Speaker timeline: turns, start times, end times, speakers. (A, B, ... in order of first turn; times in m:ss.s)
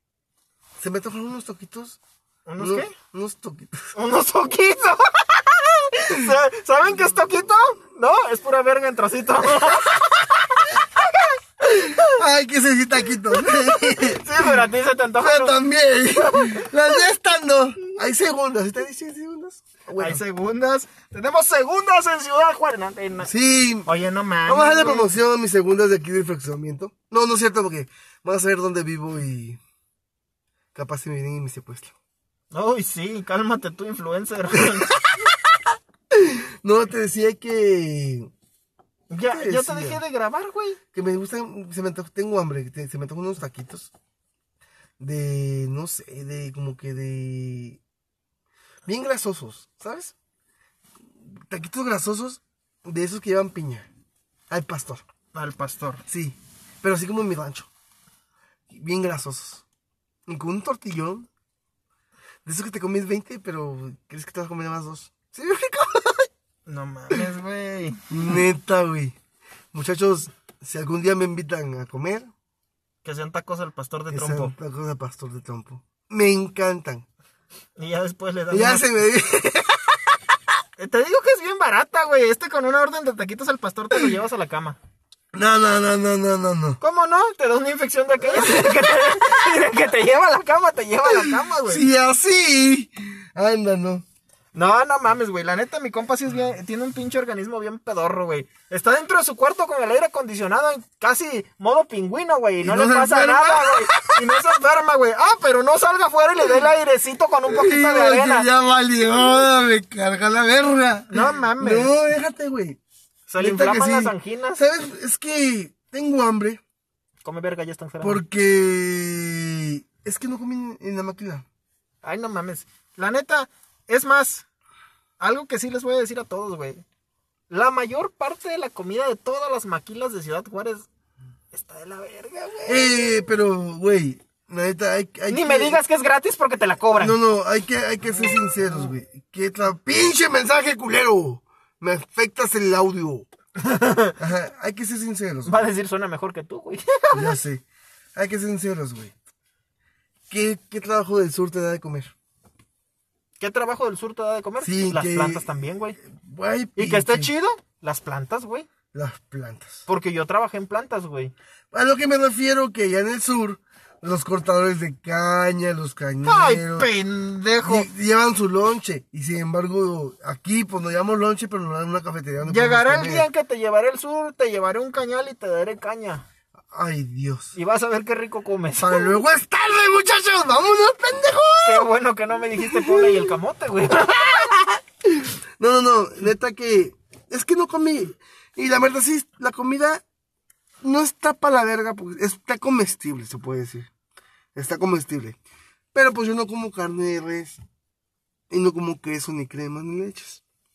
0:00.8-0:02.0 A
0:02.5-0:02.9 B
0:02.6-0:03.9 A
0:03.9-0:12.2 B
0:11.6-0:14.6 A
0:13.3-0:15.6 B
0:15.2-0:20.2 A
0:16.3-0:16.6 B
0:20.0-0:23.3 B
0:23.2-0:23.9 A
0:23.8-0:25.1 B
0:24.5-0:29.6 A
0:30.7-0:31.9 A
0:32.5-0:35.2 B
0:36.1-0:38.3 A
0:39.1-0:40.8 B
0:39.3-0:40.0 A
0:40.9-0:43.9 A
0:45.0-0:47.8 A
0:48.8-0:50.1 A
0:51.4-0:53.9 A
0:54.5-0:55.0 A
0:55.3-0:56.0 B
0:56.1-0:57.7 A
0:58.7-0:59.6 A
1:00.3-1:01.3 A
1:02.4-1:06.3 A
1:06.6-1:08.3 B
1:08.1-1:09.1 A
1:09.7-1:12.3 A
1:13.0-1:14.5 B
1:14.1-1:17.0 A
1:17.8-1:18.9 B
1:18.5-1:19.8 A
1:20.8-1:24.8 B
1:25.3-1:26.8 A
1:26.8-1:31.9 B
1:28.3-1:28.8 A
1:31.1-1:34.0 A
1:34.5-1:48.5 B
1:42.6-1:44.4 A
1:47.4-1:52.8 A
1:51.1-1:51.9 B
1:53.3-1:54.6 B
1:53.4-1:56.6 A
1:57.2-1:58.2 B
1:58.0-2:01.4 A
2:02.0-2:04.4 B
2:05.2-2:06.8 B
2:07.5-2:10.9 B
2:11.5-2:12.9 B
2:12.6-2:15.8 A
2:15.3-2:17.2 B
2:17.0-2:23.2 A
2:23.6-2:24.2 B
2:24.2-2:25.6 A
2:25.4-2:27.4 B
2:27.1-2:27.6 A
2:28.1-2:29.1 A
2:30.3-2:32.1 A
2:33.4-2:36.0 B
2:34.6-2:35.5 A
2:36.1-2:37.3 A
2:36.8-2:38.7 B
2:38.9-2:39.8 A
2:39.9-2:41.3 B
2:41.7-2:46.9 A
2:46.2-2:47.9 B
2:47.6-2:53.2 A
2:52.4-2:56.2 B
2:56.7-2:57.5 A
2:57.6-2:59.2 B
2:58.8-3:01.9 A
3:01.6-3:04.7 B
3:02.6-3:03.3 A
3:05.0-3:10.0 A
3:10.8-3:13.9 A
3:14.5-3:15.4 A
3:15.9-3:17.6 A
3:18.5-3:20.4 A